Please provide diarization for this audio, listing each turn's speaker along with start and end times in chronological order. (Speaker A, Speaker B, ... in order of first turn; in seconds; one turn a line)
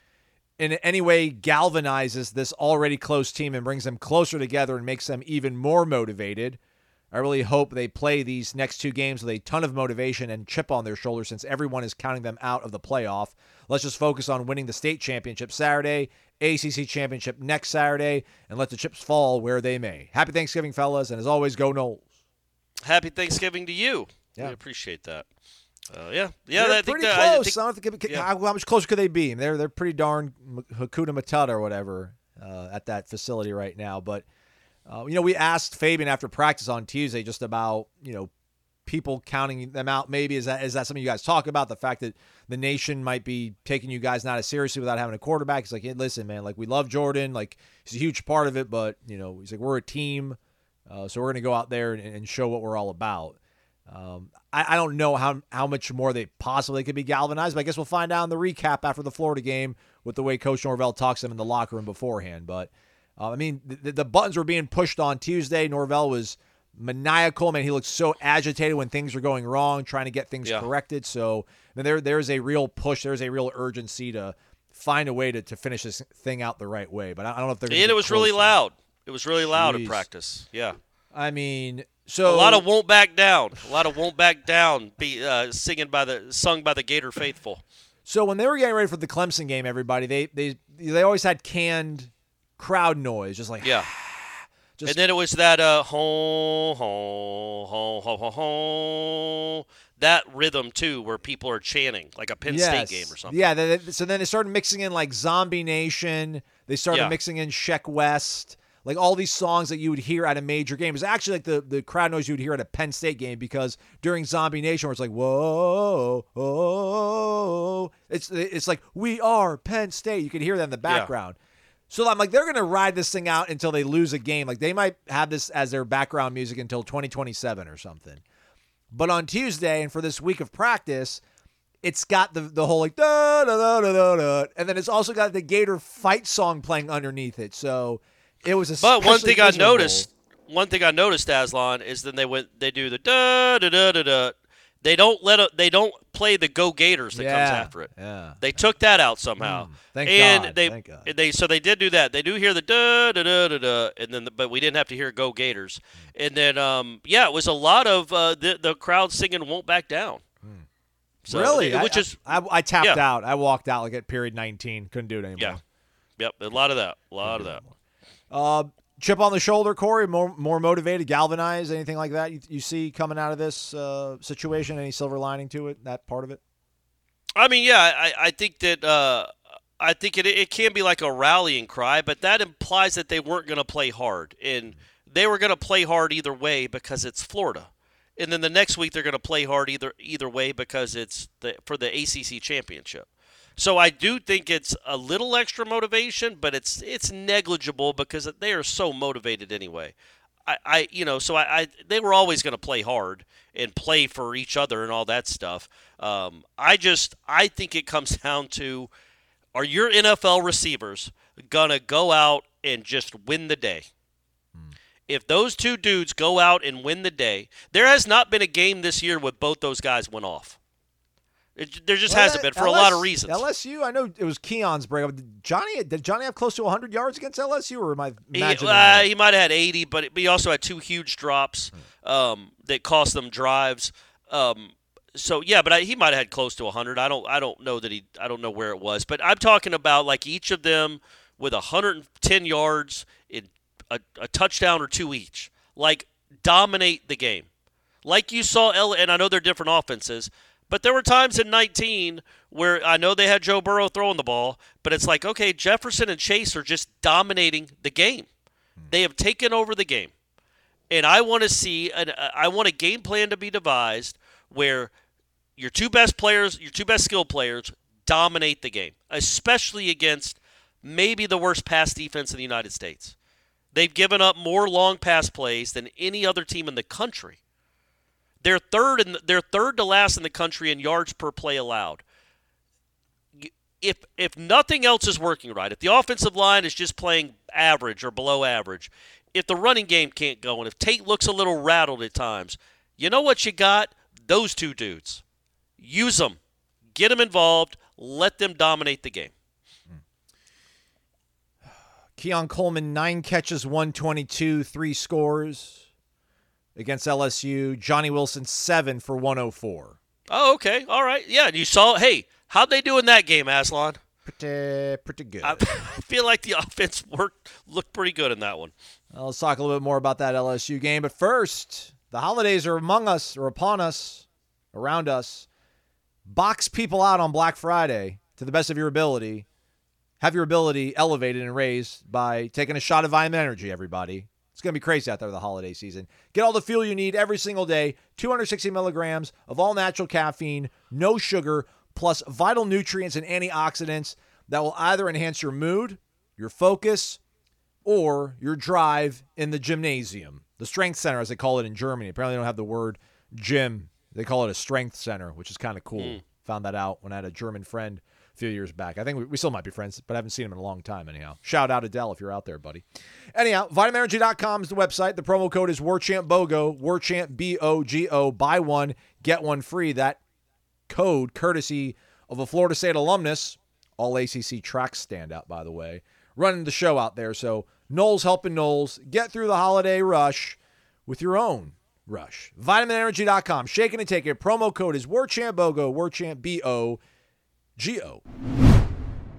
Speaker A: 0.6-6.6
Speaker A: 7.1-22.0
Speaker B: 22.8-25.2
Speaker B: 25.9-28.3
Speaker A: 26.5-34.2
Speaker A: 34.9-38.3
Speaker A: 38.9-78.5
Speaker B: 77.7-80.8
Speaker A: 79.4-80.0
Speaker A: 81.1-82.6
Speaker B: 82.2-87.6
Speaker A: 88.0-95.0
Speaker B: 93.6-93.9
Speaker B: 94.8-103.5
Speaker A: 102.5-121.4
Speaker A: 121.9-128.2
Speaker A: 128.9-131.2
Speaker A: 131.8-140.1
Speaker B: 138.8-160.2
Speaker A: 147.1-148.6
Speaker A: 149.4-151.1
Speaker B: 161.3-162.2
Speaker A: 161.3-165.6
Speaker B: 162.8-163.0
Speaker B: 166.2-167.6
Speaker A: 167.2-167.7
Speaker A: 168.3-176.4
Speaker B: 177.3-193.1
Speaker B: 193.6-199.9
Speaker B: 200.5-208.9
Speaker B: 209.5-213.9
Speaker B: 215.1-220.6
Speaker B: 221.6-223.4
Speaker A: 222.1-229.1
Speaker B: 228.3-247.5
Speaker B: 248.0-258.3
Speaker B: 258.9-260.1
Speaker B: 260.9-264.9
Speaker B: 265.6-273.1
Speaker B: 273.7-277.4
Speaker B: 278.4-282.0
Speaker B: 283.4-295.2
Speaker B: 295.8-296.4
Speaker B: 296.9-299.3
Speaker A: 302.2-305.8
Speaker A: 306.8-310.0
Speaker B: 310.3-314.0
Speaker A: 314.2-315.6
Speaker B: 315.4-318.7
Speaker A: 319.1-325.5
Speaker A: 326.2-329.4
Speaker A: 330.2-347.2
Speaker A: 347.8-370.2
Speaker A: 370.9-387.0
Speaker A: 387.8-388.2